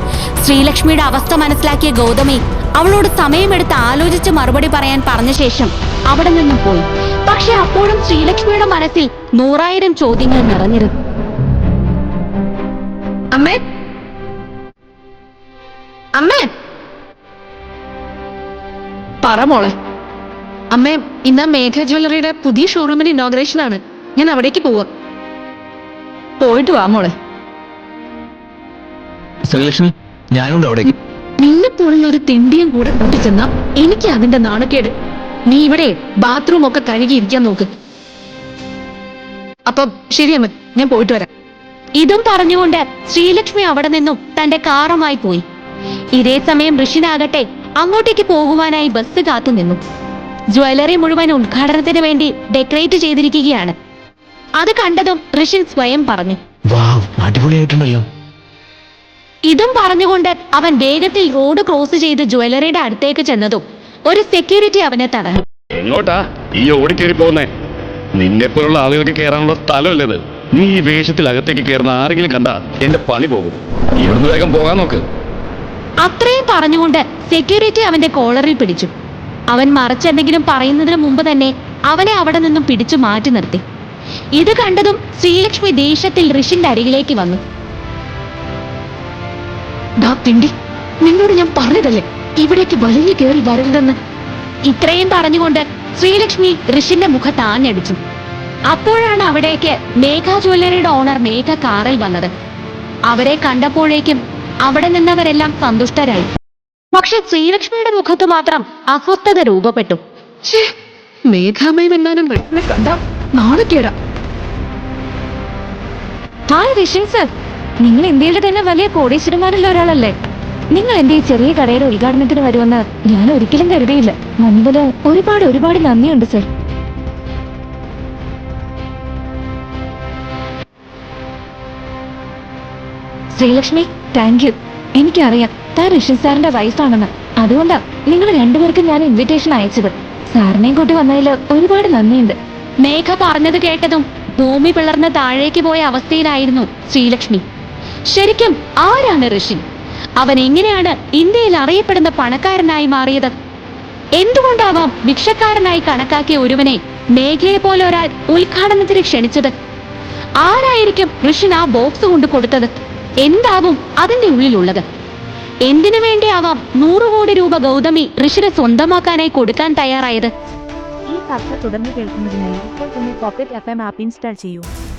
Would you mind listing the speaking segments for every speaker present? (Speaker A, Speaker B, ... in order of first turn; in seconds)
Speaker A: 0.4-10.9, 42.0-45.4, 46.1-49.8, 50.5-53.8, 54.6-56.4, 59.5-65.4, 76.0-78.9, 79.5-83.6, 84.4-87.4, 94.7-98.0, 98.7-102.3, 103.1-106.3, 106.9-110.0, 142.8-147.4, 148.1-149.6, 150.2-153.3, 154.2-159.5, 160.4-162.7, 163.2-164.8, 165.7-170.3
Speaker B: 13.3-13.6, 16.1-16.5, 19.2-19.7, 20.7-24.9, 26.4-27.1, 31.4-34.9, 35.5-37.7, 39.7-41.3, 90.0-90.5, 91.0-94.0, 110.4-110.7, 111.3-113.9
Speaker C: 29.5-30.9, 56.7-58.1
Speaker D: 65.8-67.5, 68.2-75.0
Speaker E: 116.5-117.3, 117.8-120.2, 120.7-126.5, 133.4-142.4, 173.0-173.7
Speaker F: 171.1-174.7